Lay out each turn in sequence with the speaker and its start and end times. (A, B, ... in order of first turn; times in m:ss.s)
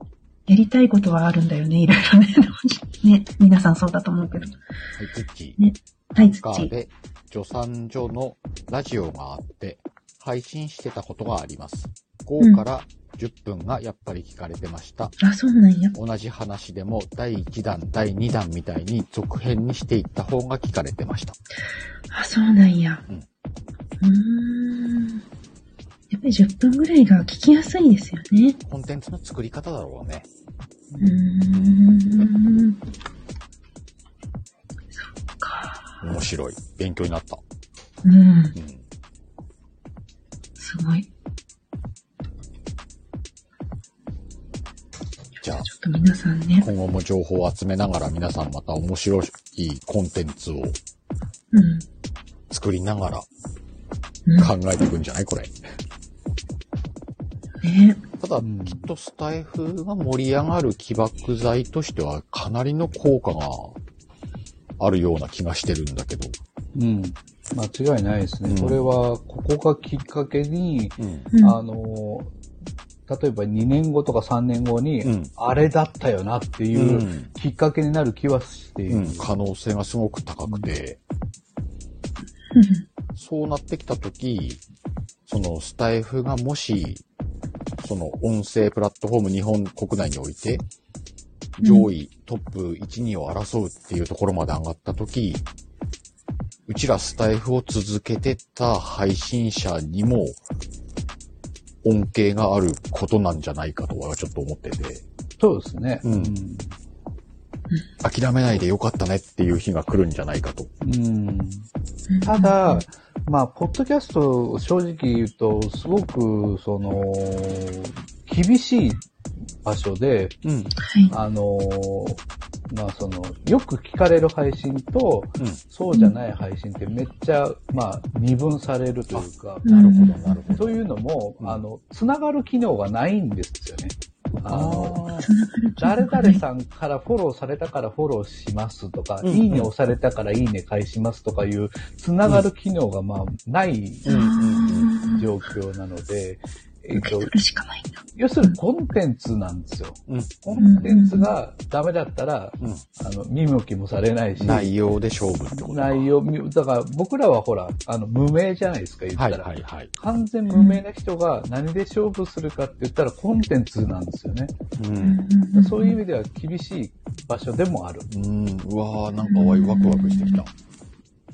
0:00.4-0:04.5 A
0:04.3-0:05.6 B
0:05.6-0:06.7 A
0:06.1-0:15.2 B
0:15.2-0:15.9 A
0:15.9-0:21.4 B
0:22.1-0:23.0 A
0:24.0-0:25.2 A
0:26.1-0:28.6 A
0:28.6-0:30.3 B
0:30.9-0:31.3 C
0:31.0-0:32.8 A
0:31.4-0:31.9 B
0:34.9-0:35.9 A
0:36.0-0:37.4 B
0:38.0-0:38.6 A
0:38.5-0:38.8 B
0:40.6-0:41.1 A
0:45.4-0:46.7 A
0:45.4-0:45.7 B
0:46.6-0:50.8 B
0:51.5-0:51.8 A
0:52.5-0:53.3 B
0:54.2-0:54.5 A
0:54.4-0:55.5 B
0:57.6-0:58.0 A
0:58.2-1:03.8 B
0:58.4-0:58.9 C
1:04.8-1:06.4 B
1:06.7-1:12.3 C
1:08.5-1:08.8 B
1:11.0-1:11.3 B
1:11.3-1:11.6 A
1:13.1-1:19.3 C
1:15.0-1:15.3 B
1:16.7-1:17.3 B
1:18.9-1:21.0 B
1:22.5-1:22.8 A
1:23.2-1:24.6 B
1:25.2-1:27.0 B
1:27.8-1:30.6 B
1:31.6-1:35.4 B
1:31.6-1:31.9 A
1:36.7-1:40.4 B
1:41.8-1:45.0 B
1:45.4-1:46.7 C
1:46.0-1:46.4 B
1:48.0-1:50.7 B
1:50.8-1:51.6 C
1:52.1-1:52.8 A
1:52.2-1:59.0 C
1:59.6-2:00.4 C
2:00.4-2:00.7 B
2:00.8-2:01.1 A
2:01.1-2:09.8 C
2:09.1-2:10.8 B
2:09.6-2:10.4 A
2:10.5-2:15.0 C
2:14.5-2:15.3 B
2:15.2-2:16.4 A
2:15.8-2:24.2 C
2:19.2-2:19.7 B
2:24.0-2:25.3 A
2:24.0-2:24.9 B
2:24.9-2:27.3 C
2:26.9-2:28.6 A
2:28.2-2:34.7 C
2:30.1-2:30.9 B
2:30.6-2:31.3 A
2:34.4-2:36.1 B
2:35.5-2:44.5 C
2:39.2-2:39.9 B
2:40.5-2:40.8 A
2:44.8-2:45.2 B
2:45.0-2:46.0 A
2:45.5-2:48.1 C
2:48.1-2:50.5 B
2:49.2-2:50.4 A